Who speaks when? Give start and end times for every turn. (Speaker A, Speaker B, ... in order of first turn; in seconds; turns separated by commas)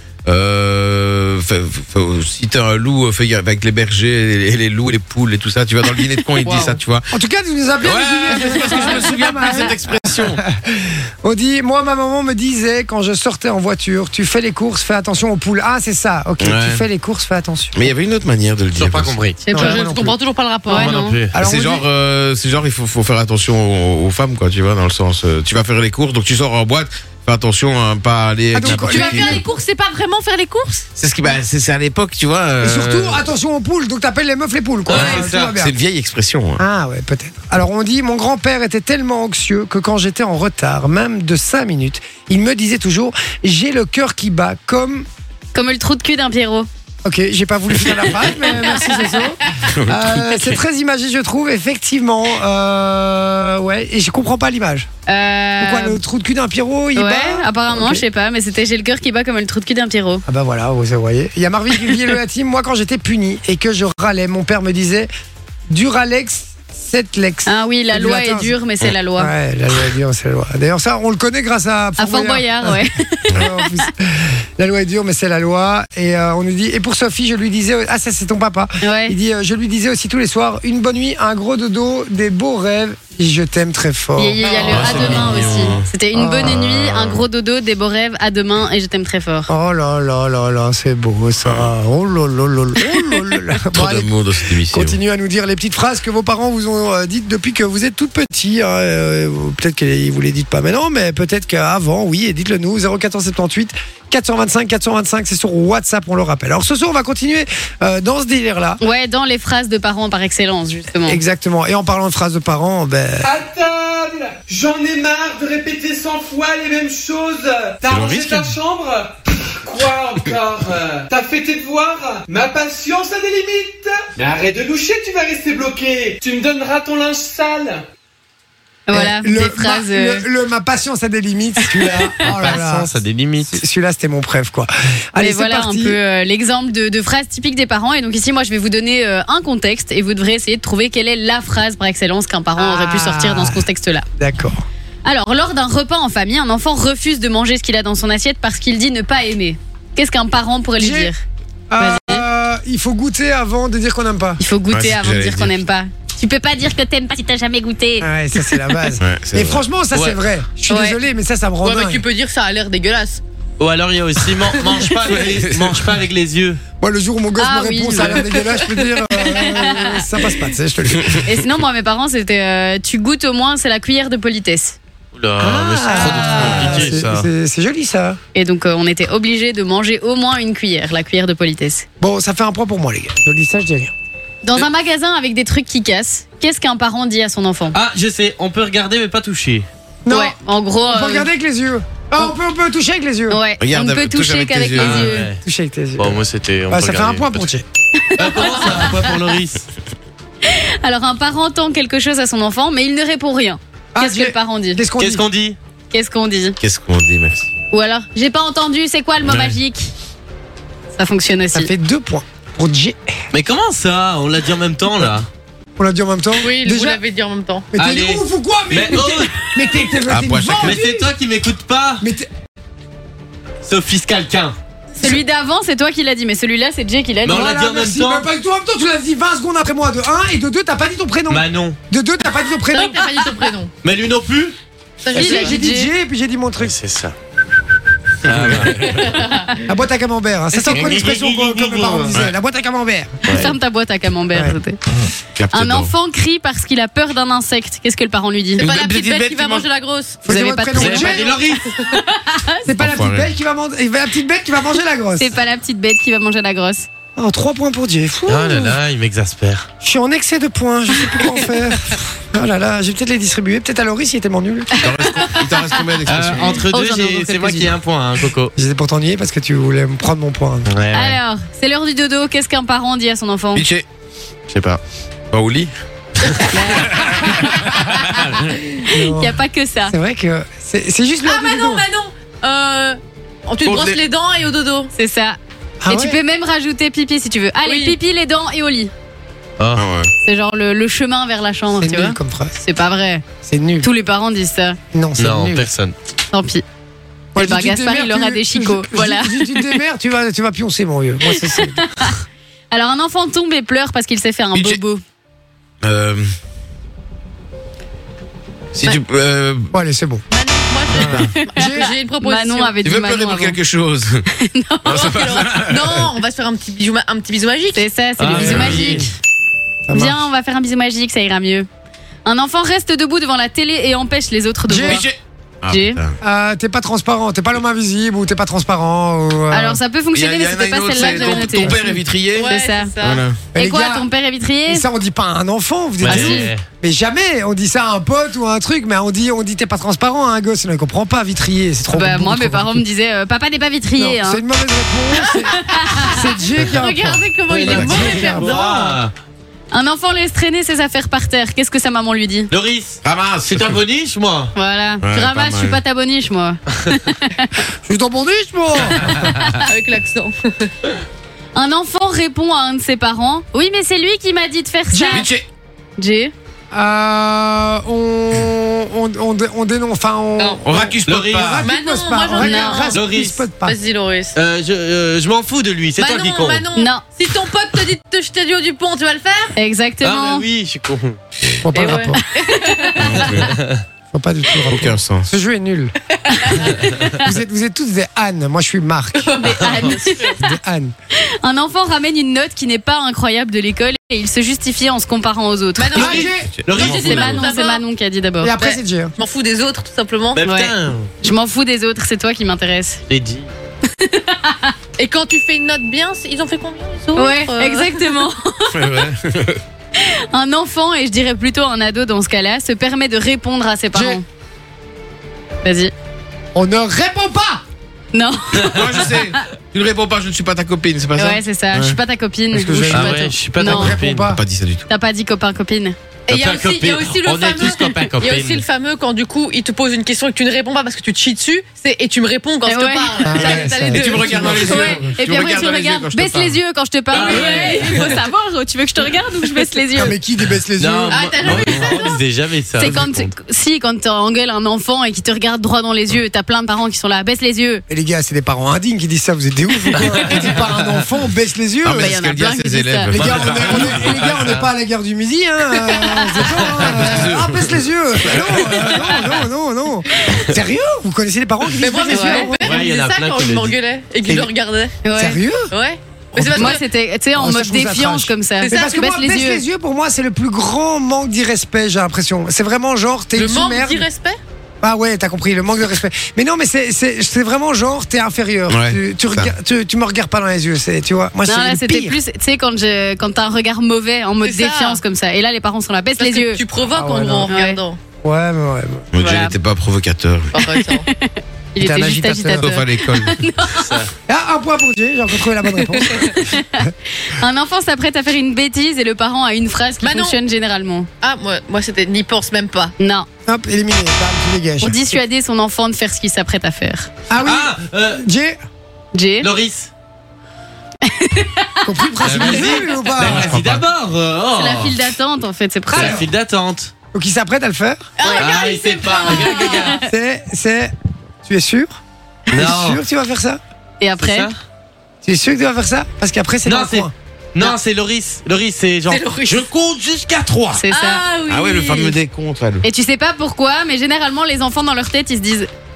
Speaker A: 0.2-7.1, Speaker B: 6.4-6.8, Speaker C: 7.1-17.9, Speaker A: 7.8-10.4, Speaker B: 8.5-8.9, Speaker A: 16.4-16.8, Speaker A: 17.8-19.2, Speaker D: 18.8-19.5, Speaker B: 19.4-21.2, Speaker C: 19.5-20.2, Speaker E: 20.7-21.2, Speaker D: 20.8-21.3, Speaker C: 21.3-21.9, Speaker A: 21.4-29.4, Speaker C: 28.5-29.4, Speaker B: 28.6-30.8, Speaker A: 30.9-33.2, Speaker C: 32.6-35.8, Speaker D: 34.9-35.5, Speaker A: 34.9-36.6, Speaker C: 36.6-45.1, Speaker E: 45.5-46.7, Speaker C: 47.0-54.9, Speaker E: 48.5-49.1, Speaker A: 49.8-50.5, Speaker E: 55.1-56.0, Speaker C: 55.6-58.0, Speaker E: 56.9-60.2, Speaker C: 60.2-65.1, Speaker C: 65.7-68.5, Speaker E: 67.5-69.3, Speaker C: 69.2-85.3, Speaker E: 72.0-73.9, Speaker E: 78.8-79.2, Speaker E: 84.2-89.5, Speaker B: 84.4-85.7, Speaker A: 84.6-85.8, Speaker C: 86.1-87.0, Speaker A: 86.6-87.2, Speaker C: 89.5-108.8, Speaker A: 93.7-95.0, Speaker E: 108.8-111.2, Speaker C: 111.0-113.3, Speaker F: 113.2-127.8, Speaker A: 117.9-118.2, Speaker D: 117.9-118.5, Speaker E: 128.9-130.2, Speaker C: 128.9-132.9, Speaker E: 131.8-132.1, Speaker D: 132.2-133.6, Speaker C: 133.4-136.0, Speaker E: 135.2-144.1, Speaker C: 142.6-143.7, Speaker C: 144.2-144.6, Speaker E: 145.0-151.2, Speaker C: 150.8-151.1, Speaker C: 151.7-154.4, Speaker E: 151.8-152.2, Speaker E: 154.4-158.1, Speaker A: 154.7-155.6, Speaker C: 158.0-162.0, Speaker A: 159.0-159.6, Speaker E: 160.7-161.0, Speaker B: 161.6-163.2, Speaker D: 163.6-166.6, Speaker A: 165.1-165.8, Speaker C: 166.8-171.3, Speaker E: 167.4-168.3, Speaker E: 169.2-170.0, Speaker E: 171.2-174.8, Speaker D: 175.1-177.3, Speaker C: 175.4-178.2, Speaker E: 175.9-176.8, Speaker E: 178.3-181.8, Speaker C: 182.0-183.9, Speaker E: 184.4-187.8, Speaker D: 187.7-189.7, Speaker C: 190.1-193.4, Speaker E: 190.1-191.3, Speaker E: 193.3-195.3, Speaker A: 193.6-195.2, Speaker D: 194.8-195.4, Speaker C: 195.4-197.7, Speaker D: 196.0-197.5, Speaker E: 198.0-199.1, Speaker D: 198.2-199.6, Speaker E: 200.4-204.8, Speaker C: 203.9-205.2, Speaker D: 205.0-205.6, Speaker E: 205.9-206.6, Speaker A: 206.6-207.5, Speaker E: 207.7-209.9, Speaker E: 210.9-211.7, Speaker C: 211.5-213.1, Speaker D: 213.3-215.3, Speaker C: 215.8-217.0, Speaker B: 216.4-217.7, Speaker C: 217.7-221.1, Speaker D: 217.7-219.5, Speaker A: 220.1-220.8, Speaker D: 220.6-222.1, Speaker C: 222.0-222.3, Speaker D: 223.6-224.6, Speaker E: 225.0-227.5, Speaker D: 227.2-228.3, Speaker C: 227.2-233.0, Speaker D: 231.3-231.8, Speaker B: 232.7-233.7, Speaker D: 233.8-234.5, Speaker B: 235.0-235.6, Speaker C: 235.1-236.7, Speaker E: 235.1-235.9, Speaker D: 236.6-237.1, Speaker D: 238.2-239.1, Speaker B: 238.8-239.6, Speaker C: 239.7-243.2, Speaker D: 240.7-242.2, Speaker E: 243.2-244.8, Speaker D: 243.2-243.5, Speaker A: 245.3-245.9, Speaker E: 245.5-248.6, Speaker B: 248.6-250.2, Speaker A: 248.6-249.7, Speaker E: 250.2-252.7, Speaker C: 250.2-251.4, Speaker D: 250.8-251.6, Speaker B: 250.8-252.0, Speaker C: 252.6-255.4, Speaker A: 252.8-253.3, Speaker E: 255.2-256.9, Speaker C: 257.1-258.8, Speaker D: 258.3-259.7, Speaker C: 259.8-264.7, Speaker A: 264.7-266.6, Speaker D: 266.1-268.5, Speaker E: 266.4-267.7, Speaker C: 268.6-270.7, Speaker D: 270.7-271.2, Speaker E: 270.9-273.6, Speaker A: 273.5-273.8, Speaker D: 274.5-274.8, Speaker A: 275.3-275.7, Speaker E: 276.5-278.3, Speaker C: 278.8-281.8, Speaker E: 278.9-279.9, Speaker B: 281.2-284.9, Speaker A: 283.6-284.0, Speaker E: 284.9-285.4, Speaker C: 285.8-286.2, Speaker E: 285.9-288.9, Speaker B: 287.6-287.9, Speaker D: 289.6-289.9, Speaker A: 289.8-290.1, Speaker E: 290.2-293.2, Speaker C: 291.8-292.6, Speaker C: 293.4-293.9, Speaker E: 293.8-294.8, Speaker C: 294.9-295.7, Speaker D: 295.2-295.9, Speaker E: 296.3-296.6, Speaker C: 297.3-302.1, Speaker E: 297.4-299.8, Speaker E: 301.3-305.0, Speaker A: 304.5-304.8, Speaker A: 305.8-306.2, Speaker A: 308.7-309.7, Speaker C: 309.7-310.2, Speaker B: 310.3-312.8, Speaker C: 310.9-311.9, Speaker E: 311.1-313.6, Speaker A: 312.8-314.2, Speaker E: 314.4-315.2, Speaker A: 314.9-316.1, Speaker B: 314.9-317.8, Speaker E: 317.7-319.1, Speaker D: 318.2-319.1, Speaker C: 318.3-319.1, Speaker C: 319.9-320.2, Speaker E: 319.9-321.7, Speaker E: 322.2-325.1, Speaker C: 324.7-325.0, Speaker A: 324.9-326.1, Speaker E: 325.7-326.0, Speaker C: 326.2-329.8, Speaker E: 329.5-332.9, Speaker A: 330.1-333.5, Speaker B: 330.9-333.2, Speaker C: 333.5-334.1, Speaker E: 333.6-334.9, Speaker C: 334.7-342.8, Speaker D: 336.0-336.6, Speaker E: 336.1-336.5, Speaker E: 341.9-344.4, Speaker C: 344.0-348.6, Speaker E: 345.3-346.1, Speaker B: 345.9-349.0, Speaker D: 347.5-349.1, Speaker A: 347.7-348.1, Speaker E: 349.7-352.5, Speaker D: 352.5-354.5, Speaker A: 353.0-353.8, Speaker E: 354.5-357.6, Speaker A: 355.0-355.8, Speaker C: 357.8-359.3, Speaker E: 358.9-359.6, Speaker B: 359.6-360.7, Speaker E: 361.5-365.3, Speaker C: 364.9-365.3, Speaker A: 365.1-365.4, Speaker E: 366.0-366.3, Speaker C: 366.7-373.8, Speaker B: 370.4-370.6, Speaker A: 370.6-371.6, Speaker D: 371.0-371.6, Speaker B: 371.6-374.3, Speaker E: 372.4-372.9, Speaker D: 374.3-376.6, Speaker B: 376.0-379.5, Speaker E: 376.8-377.0, Speaker E: 379.5-380.4, Speaker D: 380.0-381.2, Speaker C: 381.6-382.2, Speaker B: 381.7-383.4, Speaker E: 381.7-383.3, Speaker A: 383.0-383.5, Speaker D: 383.5-383.8, Speaker C: 384.1-385.9, Speaker A: 384.7-385.3, Speaker E: 386.3-387.1, Speaker B: 386.3-386.8, Speaker C: 386.7-389.4, Speaker B: 389.2-390.4, Speaker E: 389.3-390.4, Speaker C: 390.4-390.9, Speaker E: 391.2-396.3, Speaker B: 395.8-397.8, Speaker C: 395.9-396.5, Speaker D: 396.6-397.4, Speaker E: 396.8-398.5, Speaker C: 398.4-399.1, Speaker B: 398.6-400.7, Speaker D: 400.4-401.1, Speaker E: 400.4-403.0, Speaker D: 403.1-403.5, Speaker E: 403.9-404.7, Speaker B: 405.0-408.1, Speaker E: 407.1-409.0, Speaker A: 408.8-409.6, Speaker E: 409.9-414.2, Speaker C: 413.9-414.2, Speaker E: 415.6-415.9, Speaker C: 416.5-417.6, Speaker E: 418.1-419.1, Speaker A: 418.7-422.0, Speaker E: 421.2-423.9, Speaker C: 422.5-424.4, Speaker D: 422.9-424.3, Speaker A: 424.2-424.9, Speaker E: 424.9-425.9, Speaker B: 426.3-434.8, Speaker D: 426.3-428.6, Speaker E: 432.6-433.6, Speaker C: 433.2-435.1, Speaker A: 433.9-436.5, Speaker E: 434.4-440.1, Speaker B: 437.1-438.3, Speaker D: 437.1-437.9, Speaker C: 439.9-441.9, Speaker D: 440.8-443.3, Speaker B: 441.1-442.2, Speaker E: 442.8-447.8, Speaker C: 447.9-452.2, Speaker A: 451.8-454.3, Speaker E: 451.9-453.2, Speaker C: 453.1-462.8, Speaker D: 453.6-454.5, Speaker A: 456.8-457.7, Speaker A: 458.3-459.3, Speaker E: 460.2-460.5, Speaker B: 461.8-465.0, Speaker D: 462.5-463.7, Speaker E: 465.0-465.4, Speaker C: 465.2-465.7, Speaker B: 465.7-466.8, Speaker C: 466.4-466.8, Speaker E: 466.5-469.6, Speaker C: 467.4-474.1, Speaker B: 468.6-468.9, Speaker B: 473.3-474.4, Speaker C: 474.8-482.2, Speaker A: 478.7-479.5, Speaker E: 481.4-486.6, Speaker B: 484.4-485.0, Speaker B: 486.2-488.0, Speaker C: 486.9-487.5, Speaker E: 487.5-487.8, Speaker C: 488.2-489.1, Speaker A: 489.1-490.5, Speaker E: 489.2-489.6, Speaker B: 490.5-491.1, Speaker E: 490.6-493.9, Speaker C: 491.8-492.7, Speaker A: 492.6-493.4, Speaker D: 493.8-494.1, Speaker C: 494.3-496.9, Speaker E: 496.2-501.1, Speaker B: 500.0-500.4, Speaker B: 501.2-502.9, Speaker E: 503.0-503.3, Speaker C: 503.4-505.0, Speaker E: 504.8-507.1, Speaker C: 507.3-508.6, Speaker D: 507.4-508.2, Speaker E: 509.1-509.5, Speaker D: 509.4-509.9, Speaker E: 511.0-511.9, Speaker C: 511.8-513.6, Speaker D: 512.2-515.0, Speaker A: 513.2-513.8, Speaker E: 514.5-516.2, Speaker C: 515.9-516.3, Speaker D: 515.9-516.9, Speaker C: 517.1-518.1, Speaker B: 518.2-520.0, Speaker E: 518.2-518.6, Speaker D: 518.4-520.0, Speaker E: 519.1-519.9, Speaker C: 520.0-520.9, Speaker C: 521.4-521.9, Speaker C: 522.5-523.6, Speaker D: 522.5-523.0, Speaker E: 524.0-524.5, Speaker D: 524.2-524.5, Speaker C: 525.2-527.1, Speaker D: 526.6-530.7, Speaker B: 529.1-529.7, Speaker E: 530.8-531.2, Speaker B: 530.9-532.2, Speaker A: 531.5-532.8, Speaker E: 532.8-535.7